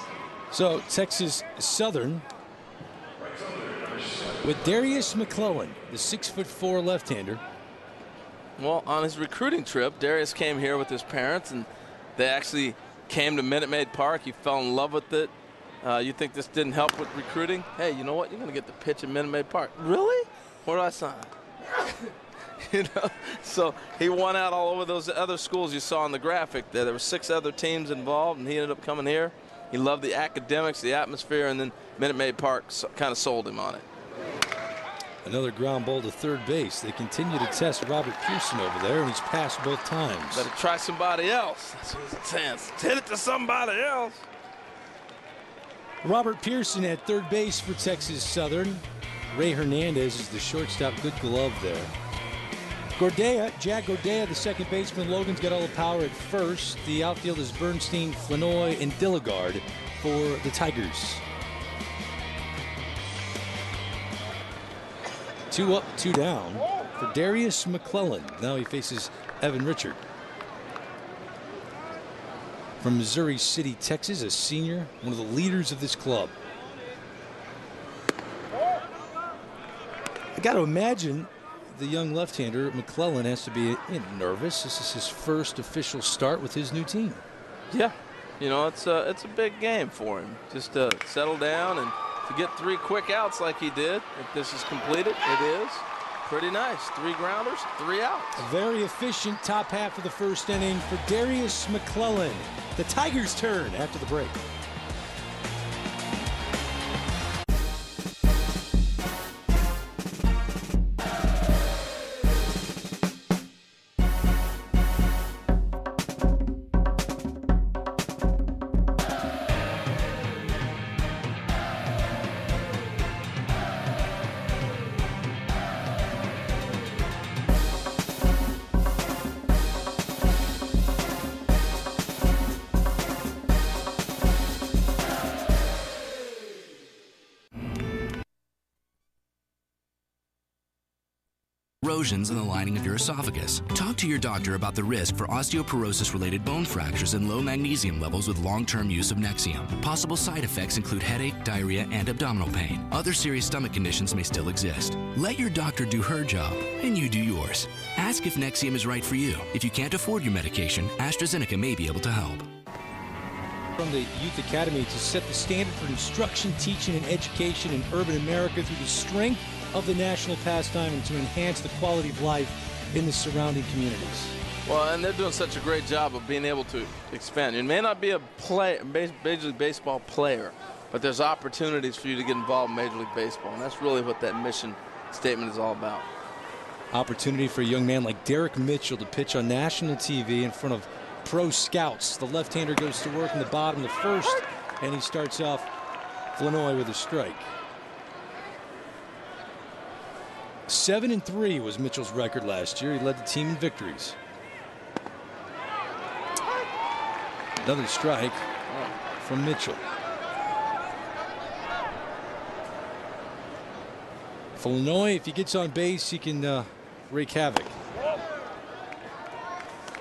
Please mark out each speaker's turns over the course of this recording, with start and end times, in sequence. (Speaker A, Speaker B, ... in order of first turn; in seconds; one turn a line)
Speaker A: 0.5-2.2
Speaker A: 4.4-7.4
Speaker B: 8.6-33.9
Speaker A: 35.2-40.5
Speaker B: 40.3-44.2
Speaker A: 46.0-51.9
Speaker A: 53.0-61.2
Speaker A: 65.5-70.0
Speaker A: 72.8-76.3
Speaker A: 80.4-87.2
Speaker B: 87.7-98.5
Speaker A: 98.4-104.4
Speaker C: 141.8-162.5
Speaker A: 163.8-174.4
Speaker B: 174.7-186.1
Speaker A: 186.9-195.7
Speaker A: 196.3-197.5
Speaker A: 200.7-204.2
Speaker A: 207.6-208.5
Speaker A: 209.2-209.8
Speaker A: 214.6-217.8